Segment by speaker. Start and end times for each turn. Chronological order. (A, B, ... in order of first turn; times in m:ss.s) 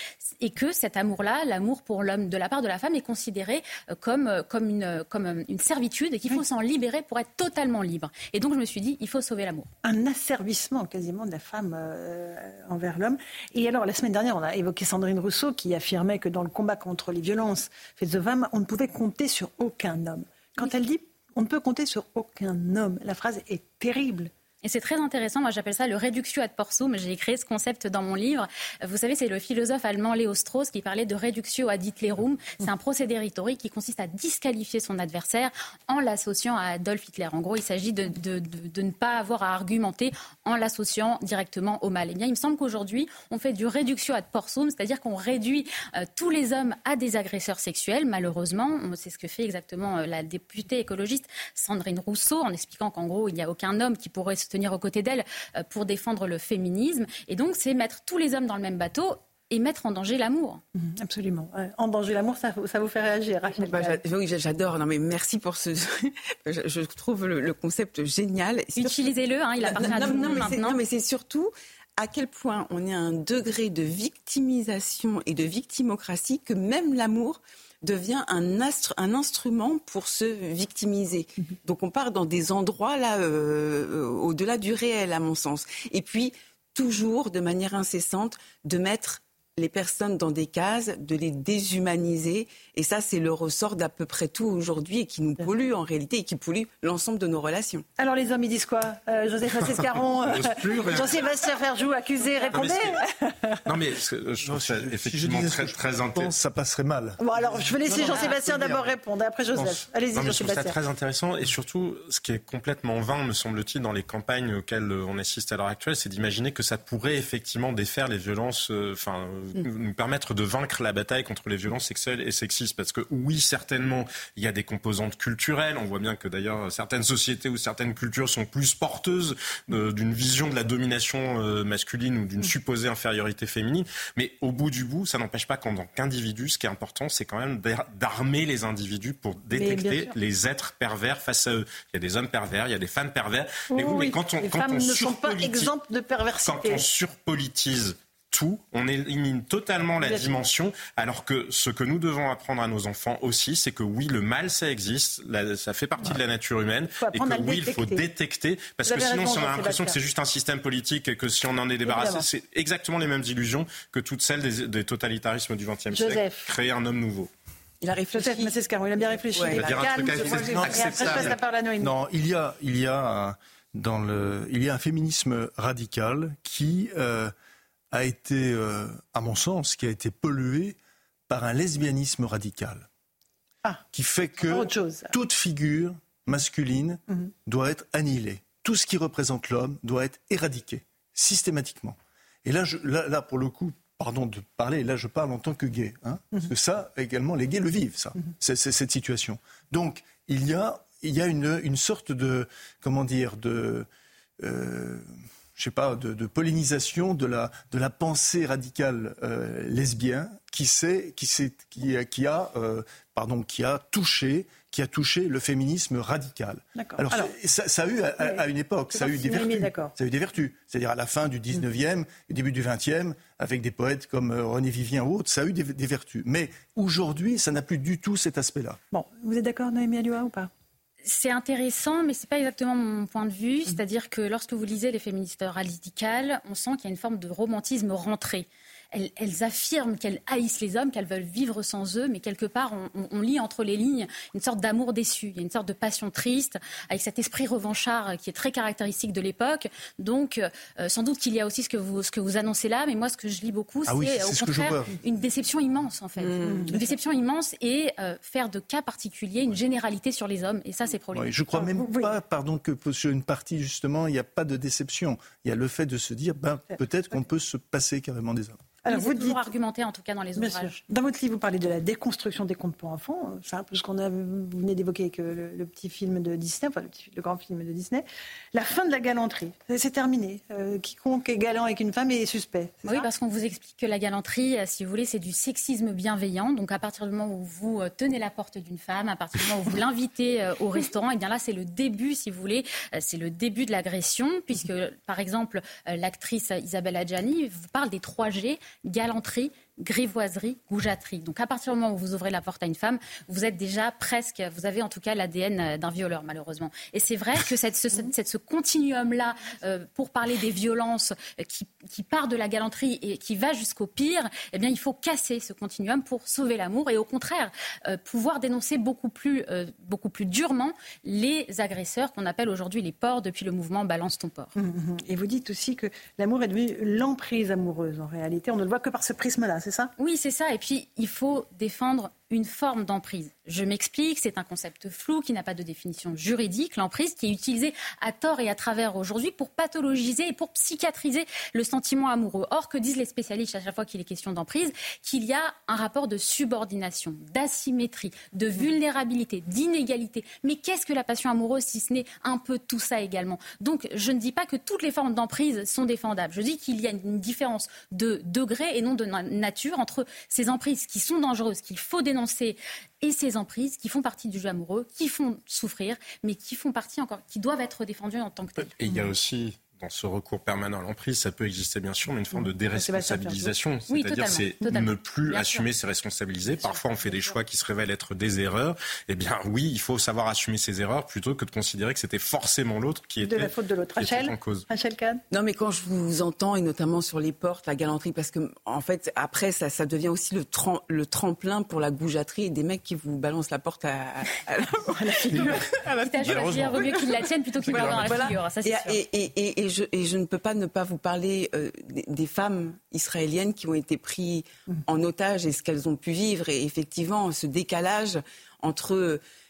0:00.4-0:09.7 A
0:09.8-0:24.3 B
0:24.6-1:00.6 A
1:00.8-1:04.0 B
1:03.6-1:37.8 C
1:08.8-1:10.8 A
1:09.8-1:10.5 B
1:38.0-1:43.6 B
1:39.7-1:41.3 D
1:42.5-1:43.0 D
1:43.7-1:46.4 D
1:44.4-1:47.9 E
1:47.2-1:50.8 B
1:48.0-1:48.6 D
1:49.5-2:25.7 D
2:19.5-2:20.1 B
2:23.7-2:26.9 B
2:26.4-2:47.3 D
2:30.0-2:30.3 B
2:37.0-2:38.0 B
2:38.8-2:40.0 B
2:41.8-2:42.2 B
2:45.9-2:46.5 B
2:47.8-2:51.3 C
2:48.1-2:51.9 B
2:49.5-2:51.4 D
2:51.8-2:57.3 E
2:57.9-3:00.8 E
3:01.3-3:02.9 E
3:03.9-3:23.9 E
3:04.4-3:05.1 B
3:24.4-3:25.0 E
3:25.6-3:48.8 E
3:36.7-3:37.3 B
3:38.2-3:39.9 B
3:48.9-3:50.5 B
3:51.0-4:21.3 A
4:13.8-4:14.9 E
4:16.3-4:17.0 B
4:21.1-4:28.8 E
4:21.5-4:22.1 B
4:26.7-4:27.2 B
4:28.8-4:30.8 A
4:28.8-4:29.4 B
4:30.4-4:43.1 B
4:42.8-5:24.5 A
5:24.5-5:29.9 B
5:30.0-6:08.7 A
6:08.8-6:24.6 D
6:12.3-6:13.5 B
6:13.9-6:15.6 A
6:23.2-6:25.2 B
6:25.3-6:36.0 C
6:34.9-6:35.6 B
6:36.0-6:39.0 A
6:37.7-6:49.2 C